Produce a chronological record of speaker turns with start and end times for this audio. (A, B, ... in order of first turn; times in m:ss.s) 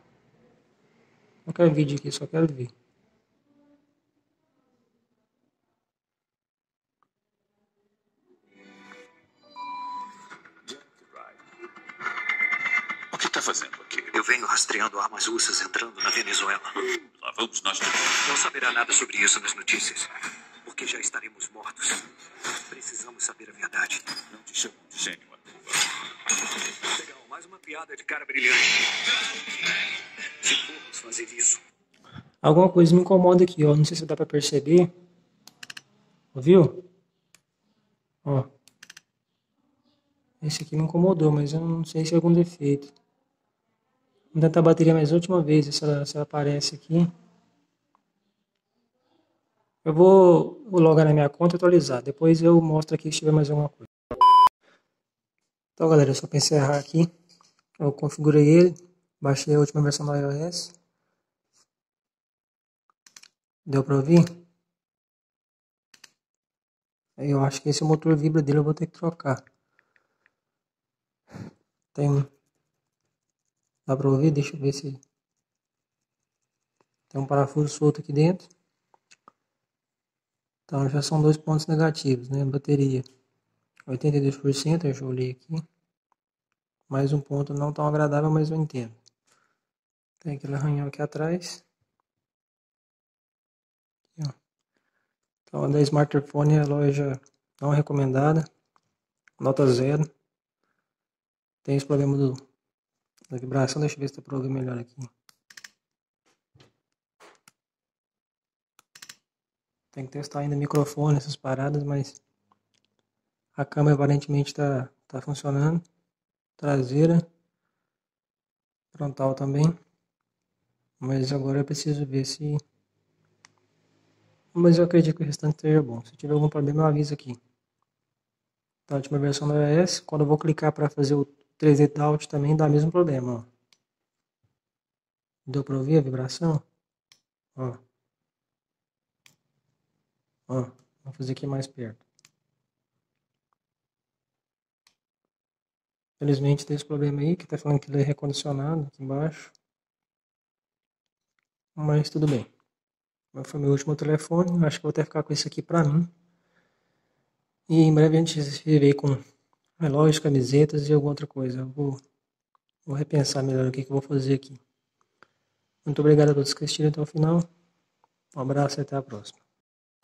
0:01.4-0:02.7 A
0:10.7-0:11.4 B
0:13.1-0:14.2 B
0:14.1-0:17.0 C
0:17.1-0:18.3 B
0:18.1-0:24.3 C
0:24.2-0:25.8 B
0:26.7-0:29.2 C
0:30.2-0:31.6 C
0:32.4-0:34.9 A
0:36.3-0:36.9 A
0:40.4-0:42.9 A
0:44.3-0:47.1 A
0:49.8-0:53.9 A
0:55.8-0:57.1 A
0:57.8-1:00.7 A
1:03.7-1:04.2 A
1:07.2-1:09.4 A
1:11.9-1:12.3 A
1:13.8-1:15.0 A
1:17.1-1:18.5 A
1:20.7-1:23.0 A
1:23.9-1:25.6 A
1:26.9-1:29.0 A
1:30.2-1:31.6 A
1:35.5-1:38.4 A
1:39.4-1:40.1 A
1:41.6-1:42.4 A
1:43.3-1:45.1 A
1:49.9-1:52.2 A
1:53.5-1:55.8 A
1:56.6-1:57.2 A
1:58.9-1:59.7 A
2:01.0-2:02.6 A
2:04.5-2:07.4 A
2:08.9-2:13.5 A
2:15.4-2:16.6 A
2:20.5-2:22.0 A
2:26.2-2:29.5 A
2:31.8-2:32.5 A
2:33.3-2:36.1 A
2:37.7-2:39.2 A
2:39.8-2:42.0 A
2:42.8-2:44.6 A
2:45.8-2:47.5 A
2:48.3-2:49.4 A